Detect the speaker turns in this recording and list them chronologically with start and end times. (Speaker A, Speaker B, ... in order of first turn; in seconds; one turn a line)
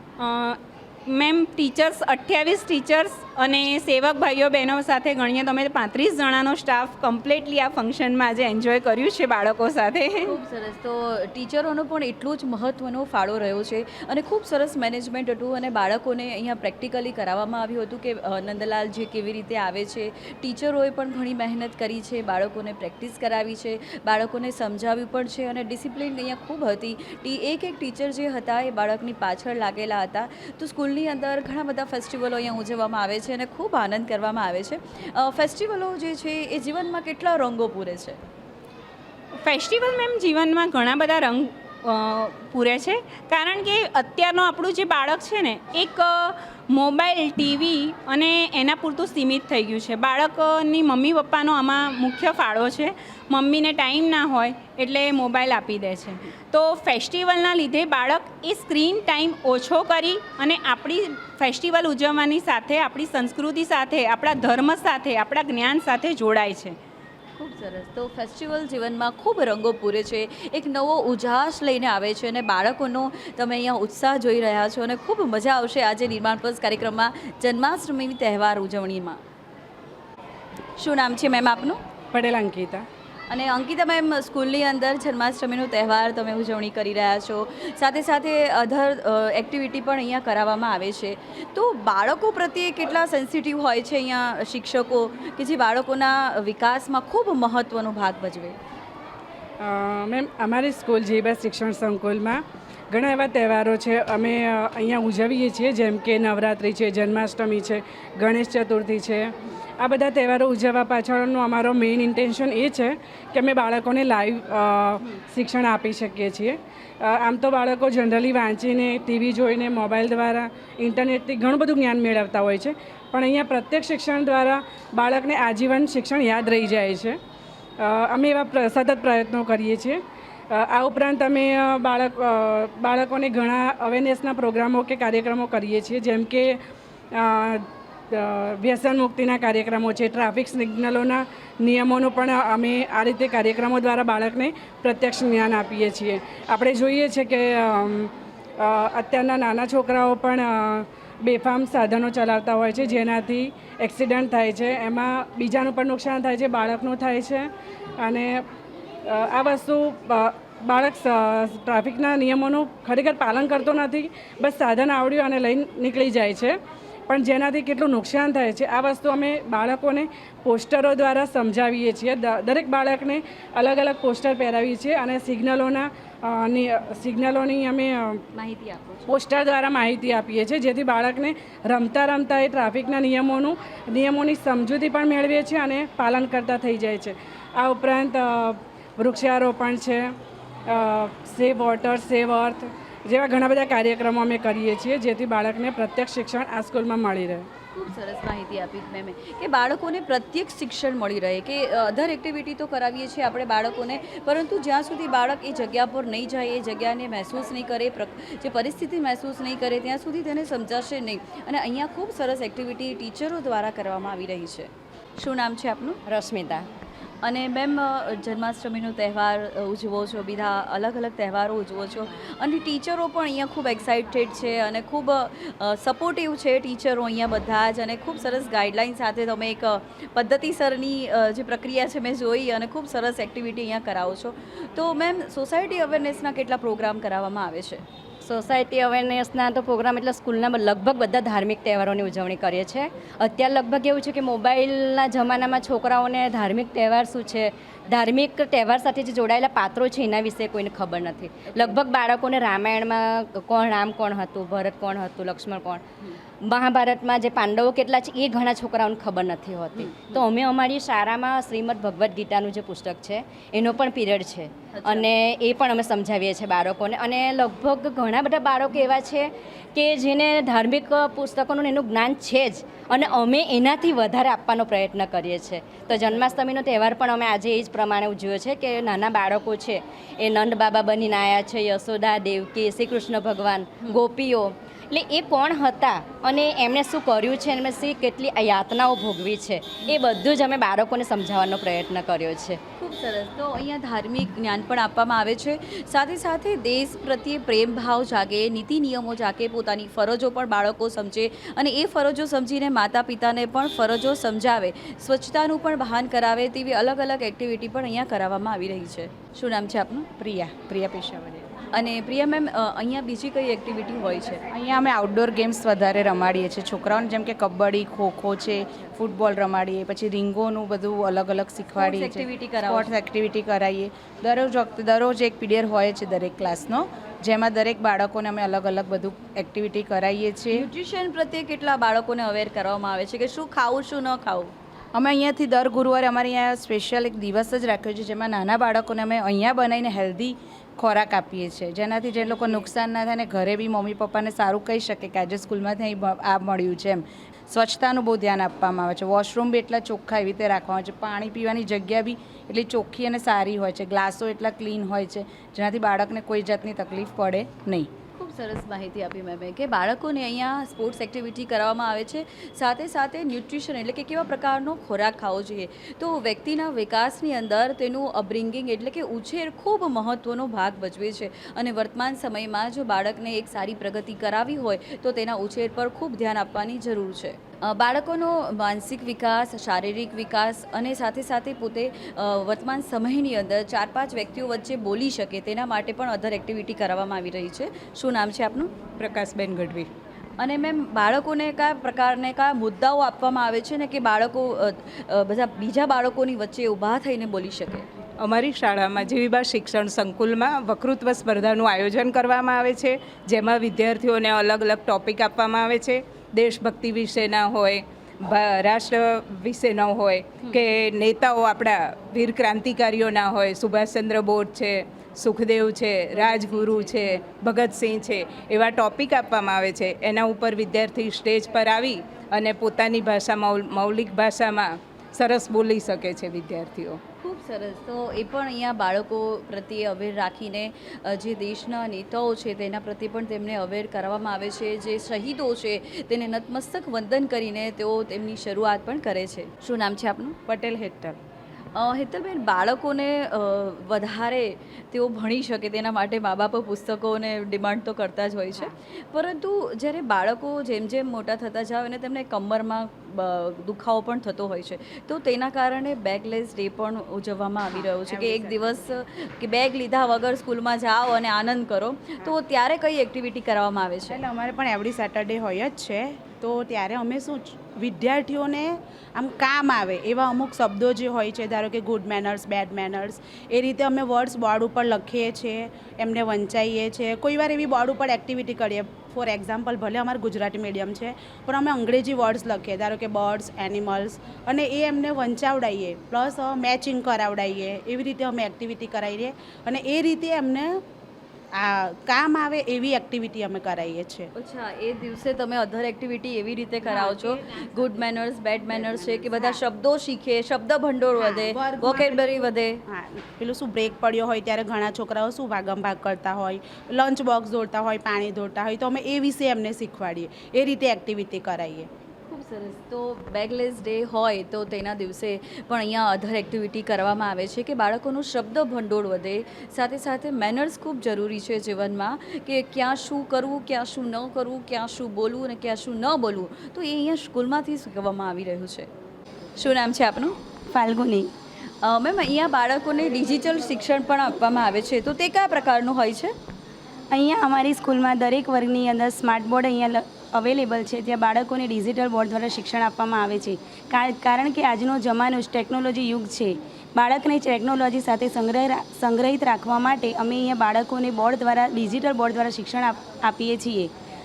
Speaker A: 0.2-10.3
Speaker B: 10.2-38.2
Speaker A: 39.4-66.8
Speaker B: 67.4-79.2
Speaker B: 80.8-81.8
Speaker C: 82.1-82.8
Speaker B: 83.3-98.6
Speaker C: 99.6-127.2
Speaker C: 127.8-130.0
Speaker C: 130.5-136.6
Speaker C: 137.1-158.4
Speaker C: 159.0-166.6
Speaker C: 167.1-178.2
Speaker B: 178.3-179.0
Speaker C: 179.1-190.1
Speaker C: 190.7-197.5
Speaker B: 197.7-216.0
Speaker D: 216.1-216.7
Speaker B: 217.2-237.8
Speaker D: 238.2-255.8
Speaker D: 256.4-292.6
Speaker B: 264.8-265.1
Speaker B: 292.8-310.1
Speaker E: 310.2-311.4
Speaker B: 311.7-314.4
Speaker E: 314.5-330.6
Speaker B: 321.8-322.9
Speaker B: 330.5-334.5
Speaker E: 334.9-357.9
Speaker B: 358.1-388.7
Speaker F: 389.0-389.9
Speaker B: 390.4-397.9
Speaker F: 398.2-427.0
Speaker G: 416.3-416.8
Speaker B: 427.2-440.4
Speaker F: 440.5-441.2
Speaker B: 441.7-464.2
Speaker G: 457.7-458.9
Speaker G: 464.1-490.8
Speaker G: 491.5-494.3
Speaker B: 494.3-502.8
Speaker G: 496.9-497.9
Speaker G: 498.7-499.6
Speaker G: 501.1-511.9
Speaker B: 512.3-528.9
Speaker B: 529.6-530.4
Speaker H: 530.7-531.3
Speaker B: 531.8-536.3
Speaker H: 537.1-553.9